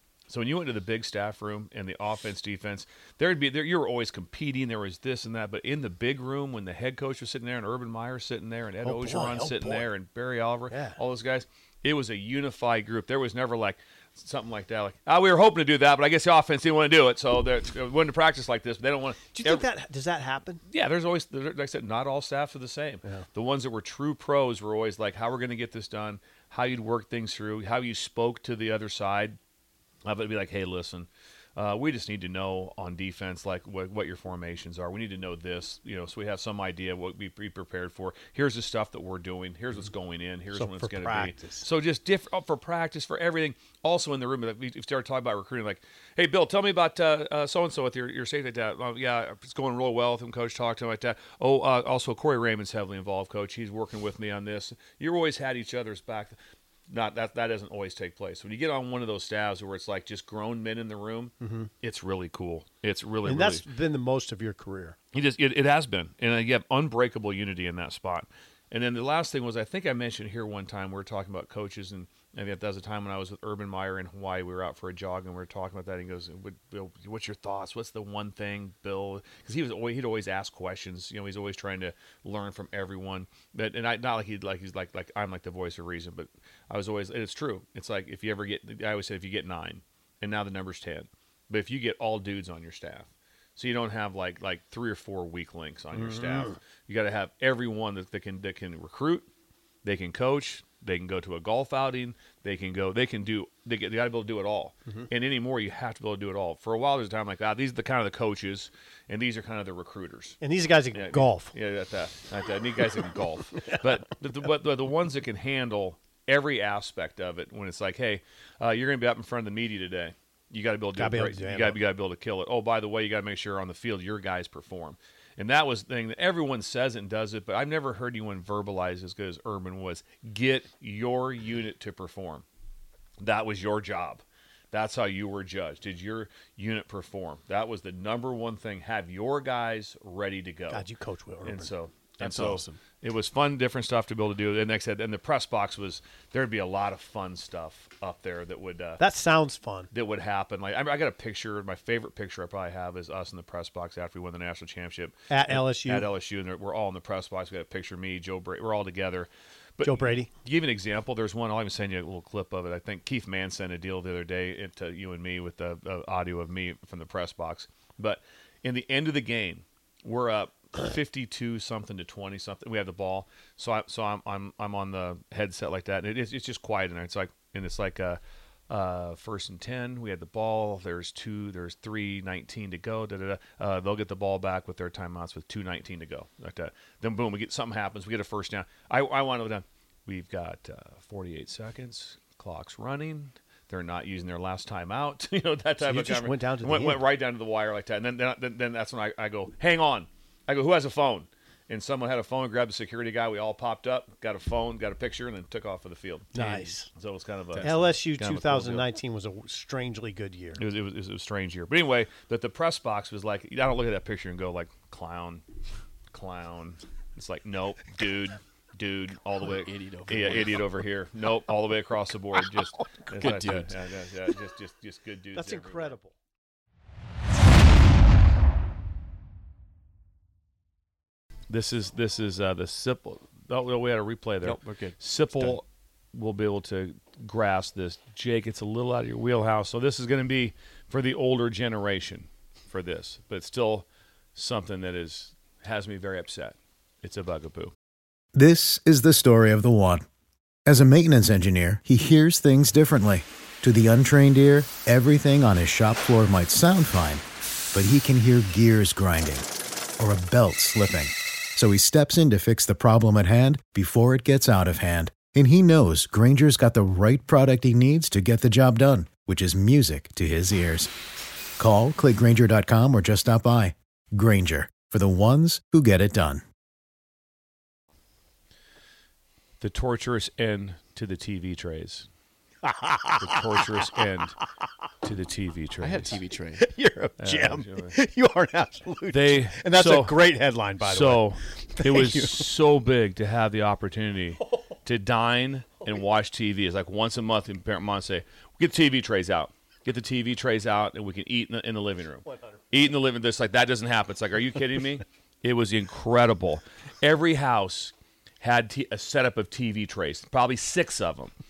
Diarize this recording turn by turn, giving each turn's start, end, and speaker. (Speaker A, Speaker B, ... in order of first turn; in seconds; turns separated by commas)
Speaker A: 0.3-19.6, Speaker B: 8.8-9.9, Speaker B: 10.7-11.0, Speaker B: 19.3-20.6, Speaker A: 20.7-29.4, Speaker A: 30.0-56.4, Speaker B: 40.5-41.6, Speaker A: 56.9-63.6, Speaker B: 61.4-61.7, Speaker B: 63.2-65.0, Speaker A: 65.1-99.3, Speaker B: 96.0-96.5, Speaker A: 99.8-110.4, Speaker B: 110.4-111.5, Speaker A: 110.9-132.4, Speaker B: 121.0-121.8, Speaker A: 133.2-140.8, Speaker B: 140.7-141.7, Speaker A: 141.4-149.0, Speaker C: 142.2-142.8, Speaker B: 149.0-149.9, Speaker A: 149.9-208.8, Speaker B: 155.3-156.1, Speaker B: 159.8-160.3, Speaker B: 195.8-197.0, Speaker B: 206.3-206.9, Speaker B: 207.6-210.6, Speaker A: 210.6-215.4, Speaker A: 216.1-225.9, Speaker C: 219.4-220.6, Speaker C: 223.1-223.7, Speaker B: 225.3-226.1, Speaker A: 231.5-247.7, Speaker C: 234.4-235.6, Speaker D: 248.3-250.0, Speaker D: 250.7-257.2, Speaker D: 257.7-259.4, Speaker D: 260.0-270.9, Speaker D: 271.6-276.4, Speaker A: 279.6-282.1, Speaker B: 282.6-283.4, Speaker A: 283.2-284.4, Speaker A: 285.0-286.2, Speaker C: 285.8-286.6, Speaker B: 286.6-292.5, Speaker A: 287.2-287.9, Speaker A: 289.1-290.2, Speaker A: 290.8-311.3